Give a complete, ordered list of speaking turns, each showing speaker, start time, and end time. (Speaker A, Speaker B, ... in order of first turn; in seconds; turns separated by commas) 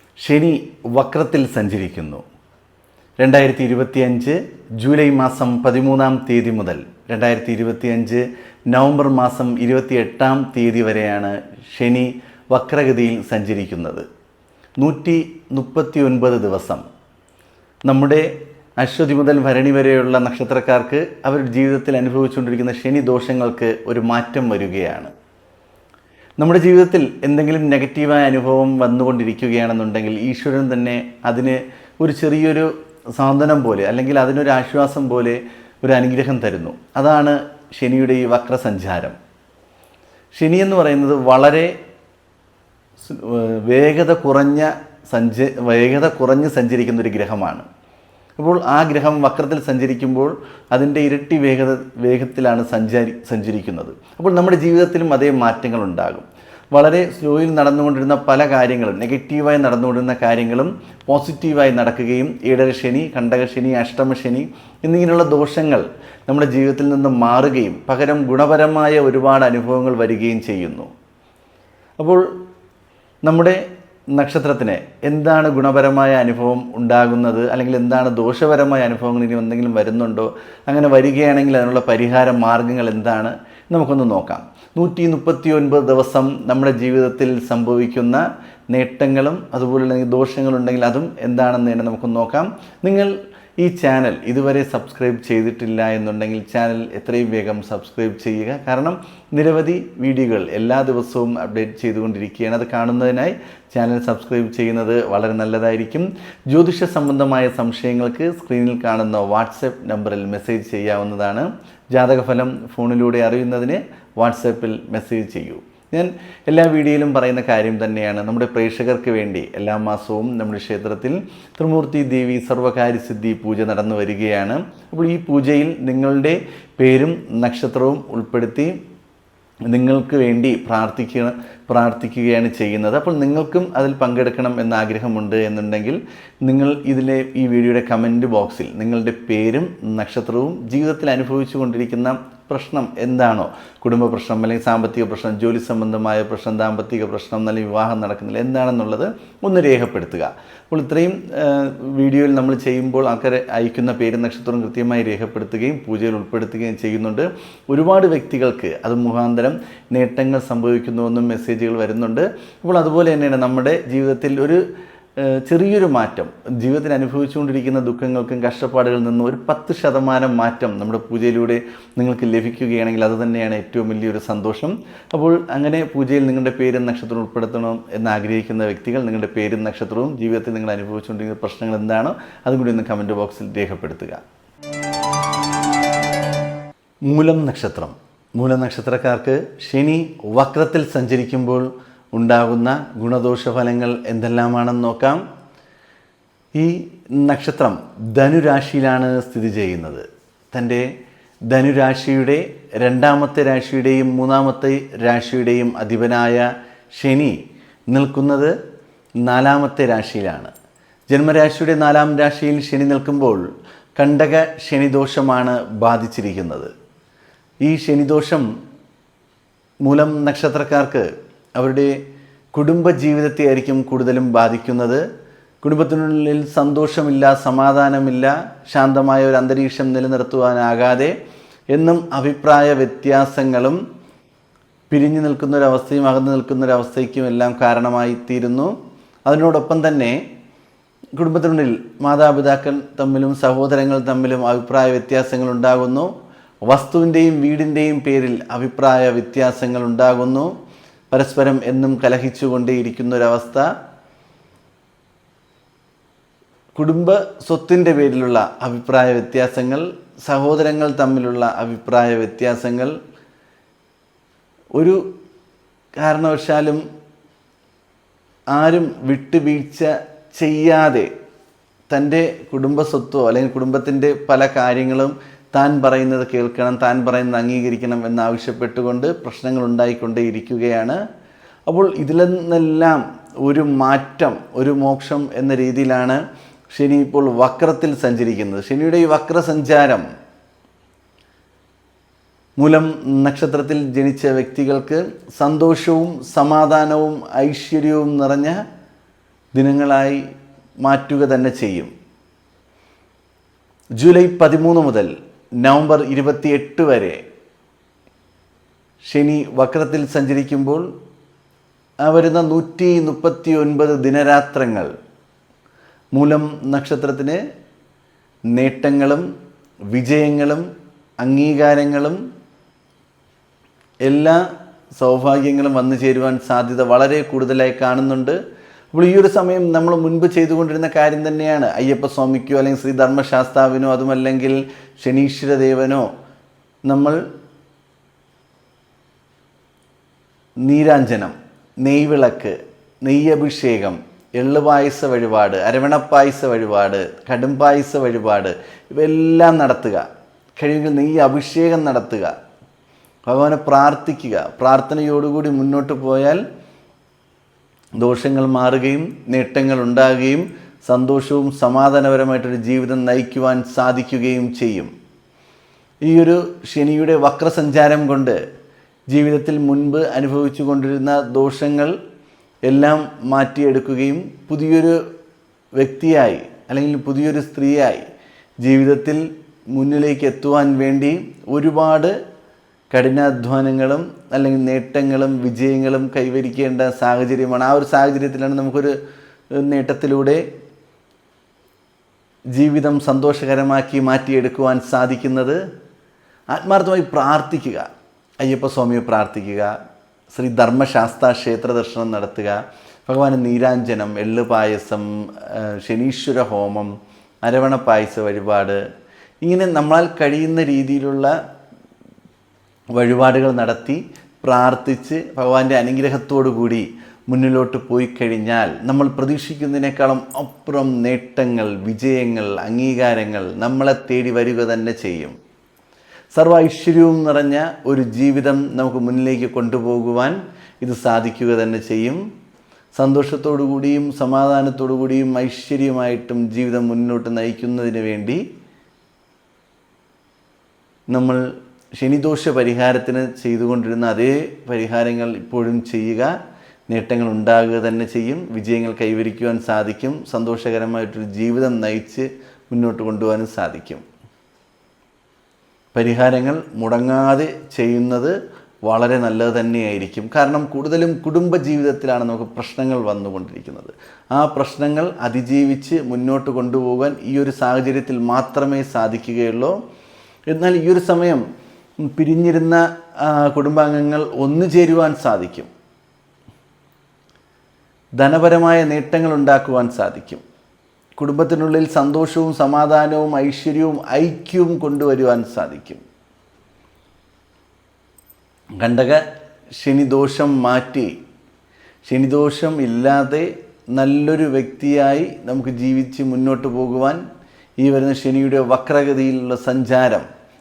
Speaker A: 0.2-2.2, Speaker A: 3.2-14.1, Speaker A: 14.8-16.8, Speaker A: 17.9-25.1, Speaker A: 26.4-39.2, Speaker A: 40.4-41.7, Speaker A: 43.0-47.7, Speaker A: 48.4-70.9, Speaker A: 72.0-72.3, Speaker A: 73.3-73.6, Speaker A: 74.1-128.8, Speaker A: 129.7-164.6, Speaker A: 165.2-184.2, Speaker A: 187.1-195.2, Speaker A: 196.5-200.9, Speaker A: 201.5-206.4, Speaker A: 207.0-207.4, Speaker A: 207.9-208.5, Speaker A: 209.2-210.5, Speaker A: 211.1-213.5, Speaker A: 214.0-216.7, Speaker A: 217.6-218.5, Speaker A: 219.8-221.9, Speaker A: 222.6-225.0, Speaker A: 225.6-231.1, Speaker A: 231.8-233.8, Speaker A: 234.9-238.7, Speaker A: 239.3-240.2, Speaker A: 241.2-246.1, Speaker A: 246.7-250.5, Speaker A: 251.1-253.7, Speaker A: 256.8-262.9, Speaker A: 266.0-266.8, Speaker A: 268.5-271.1, Speaker A: 271.9-281.0, Speaker A: 281.7-286.2, Speaker A: 286.7-290.1, Speaker A: 292.6-298.6, Speaker A: 299.6-300.2, Speaker A: 300.8-301.9, Speaker A: 304.0-305.1, Speaker A: 305.6-307.2, Speaker A: 309.1-310.9, Speaker A: 312.1-314.9, Speaker A: 316.1-317.4, Speaker A: 318.6-319.3, Speaker A: 319.9-320.7, Speaker A: 321.2-322.2, Speaker A: 324.1-324.4, Speaker A: 324.9-328.4, Speaker A: 328.9-336.1, Speaker A: 336.9-337.2, Speaker A: 340.7-350.1, Speaker A: 350.6-352.3, Speaker A: 353.3-356.4, Speaker A: 358.0-364.9, Speaker A: 366.1-368.4, Speaker A: 369.1-371.9, Speaker A: 372.7-375.0, Speaker A: 375.8-378.1, Speaker A: 378.6-379.2, Speaker A: 379.7-382.1, Speaker A: 382.9-389.0, Speaker A: 389.6-390.4, Speaker A: 392.6-395.6, Speaker A: 396.5-397.9, Speaker A: 398.4-399.7, Speaker A: 400.3-406.9, Speaker A: 407.4-408.8, Speaker A: 409.4-411.3, Speaker A: 412.9-425.4, Speaker A: 426.4-432.2, Speaker A: 433.0-438.4, Speaker A: 441.1-441.4, Speaker A: 442.0-446.3, Speaker A: 446.9-454.0, Speaker A: 455.9-458.4, Speaker A: 458.9-469.8, Speaker A: 470.5-471.4, Speaker A: 472.0-475.7, Speaker A: 478.2-480.4, Speaker A: 481.2-486.0, Speaker A: 488.8-489.2, Speaker A: 489.8-491.1, Speaker A: 492.1-497.2, Speaker A: 497.8-500.3